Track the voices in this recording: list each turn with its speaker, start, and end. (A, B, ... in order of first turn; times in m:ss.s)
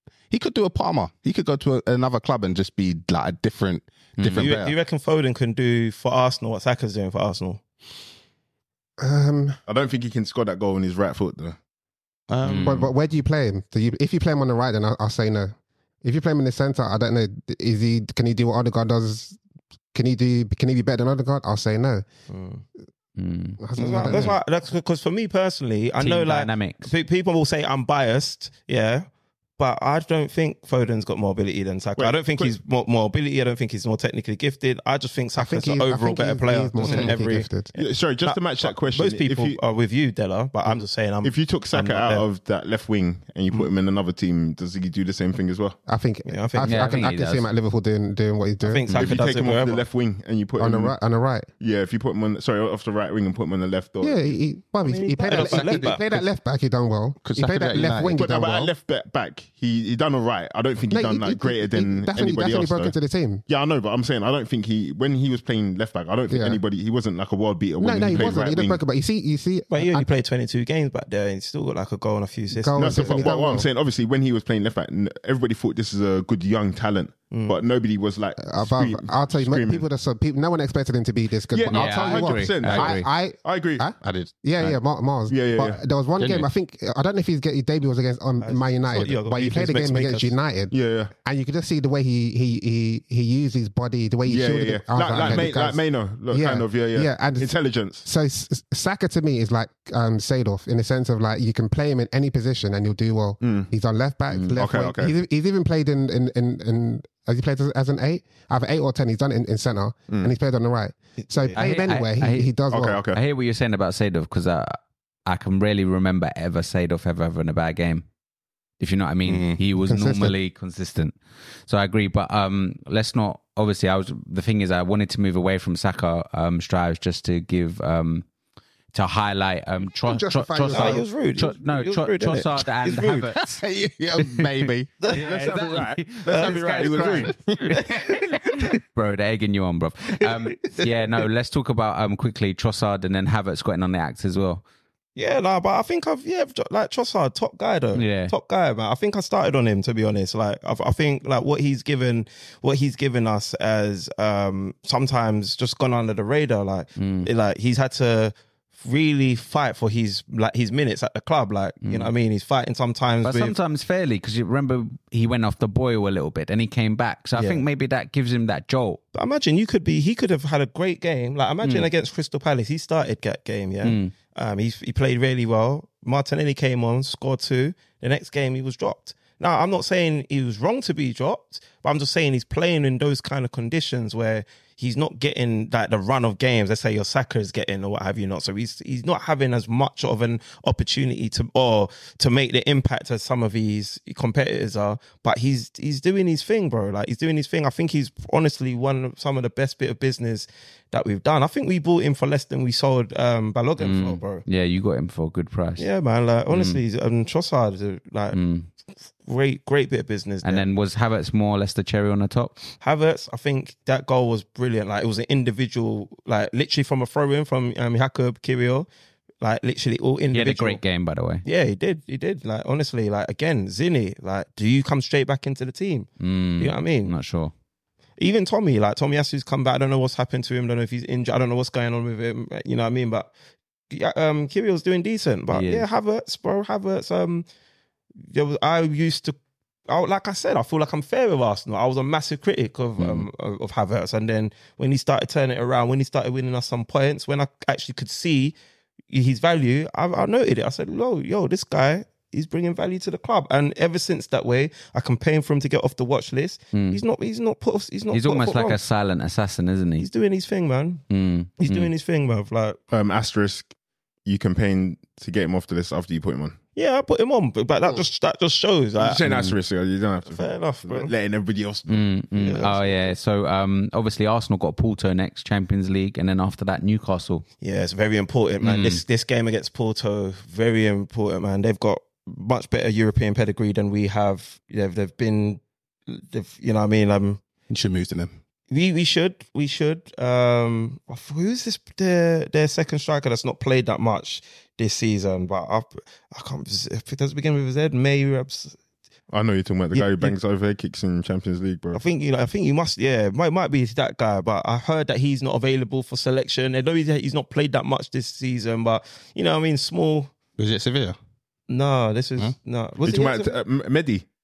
0:00.3-0:04.7 A
0:04.2-0:04.5 B
0:04.4-0:07.6 C
0:09.0-0:09.6 D
0:09.7-0:11.6 E
0:12.3-0:12.8 A
0:12.4-0:12.9 B
0:12.6-0:19.4 D
0:19.9-0:22.1 D
0:22.3-0:22.6 C
0:23.2-0:23.6 B
0:23.6-0:24.4 D
0:23.8-0:24.4 A
0:23.8-0:42.3 C
0:26.0-0:26.9 B
0:32.0-0:32.5 E
0:35.4-0:37.7 D
0:36.8-0:37.1 A
0:37.7-0:39.6 E
0:41.2-0:45.8 E
0:45.9-0:49.2 D
0:46.3-0:47.1 C
0:46.6-0:47.5 B
0:48.6-0:49.8 C
0:48.9-0:51.0 E
0:50.6-0:51.5 D
0:51.6-0:54.2 E
0:54.0-0:58.7 D
0:54.8-0:56.0 C
0:55.4-0:55.9 E
0:57.2-0:58.2 A
0:58.1-1:08.8 E
1:00.9-1:03.4 D
1:06.3-1:06.6 D
1:07.8-1:10.1 D
1:09.7-1:13.6 C
1:12.5-1:13.7 D
1:12.8-1:19.8 E
1:17.3-1:17.6 C
1:18.4-1:53.0 D
1:21.5-1:23.8 E
1:21.7-1:23.1 B
1:24.0-1:24.8 A
1:25.3-1:25.8 E
1:26.2-1:26.5 A
1:28.4-1:30.4 C
1:30.7-1:31.1 E
1:34.2-1:38.0 E
1:43.4-1:43.7 E
1:44.3-1:44.6 B
1:44.6-1:45.1 E
1:51.2-1:51.6 C
1:51.6-1:52.5 B
1:52.7-1:53.2 E
1:53.1-1:58.0 B
1:58.8-2:08.2 B
1:59.2-1:59.6 A
1:59.7-2:00.4 D
2:08.9-2:13.6 B
2:10.0-2:11.0 D
2:10.7-2:13.2 C
2:13.4-2:15.5 A
2:14.2-2:24.6 B
2:15.0-2:15.5 C
2:15.2-2:17.3 E
2:16.3-2:18.1 A
2:16.3-2:17.2 C
2:25.2-2:43.6 C
2:27.9-2:28.3 B
2:37.0-2:37.3 B
2:41.8-2:42.1 B
2:43.2-2:49.0 B
2:47.3-2:47.6 C
2:49.1-3:24.4 C
2:51.6-2:51.9 B
2:53.8-2:54.1 B
3:23.8-3:25.9 B
3:25.8-3:28.4 C
3:26.5-3:26.8 B
3:28.3-3:28.7 B
3:29.2-3:30.7 C
3:30.4-3:32.6 B
3:32.8-3:38.9 C
3:39.4-3:40.8 C
3:40.3-3:41.4 B
3:41.4-3:47.1 C
3:46.2-3:47.5 B
3:48.2-3:53.3 C
3:53.9-3:57.4 C
3:55.5-3:55.8 B
3:58.3-3:59.4 C
3:59.9-4:08.5 C
4:03.0-4:03.3 B
4:09.1-4:18.8 C
4:16.7-4:17.0 B
4:18.1-4:20.1 B
4:20.0-4:21.0 C
4:21.1-4:21.9 B
4:21.6-4:22.8 C
4:22.9-4:23.7 E
4:24.2-4:26.6 E
4:26.7-4:29.5 C
4:29.0-4:32.8 E
4:30.2-4:31.1 C
4:31.9-4:37.4 B
4:32.3-4:33.1 C
4:37.6-4:47.4 C
4:38.6-4:39.0 B
4:47.7-4:48.3 A
4:48.7-4:58.8 C
4:59.3-5:02.0 E
4:59.9-5:00.3 C
5:01.9-5:10.3 C
5:10.6-5:11.2 A
5:11.7-5:13.6 C
5:13.0-5:14.2 E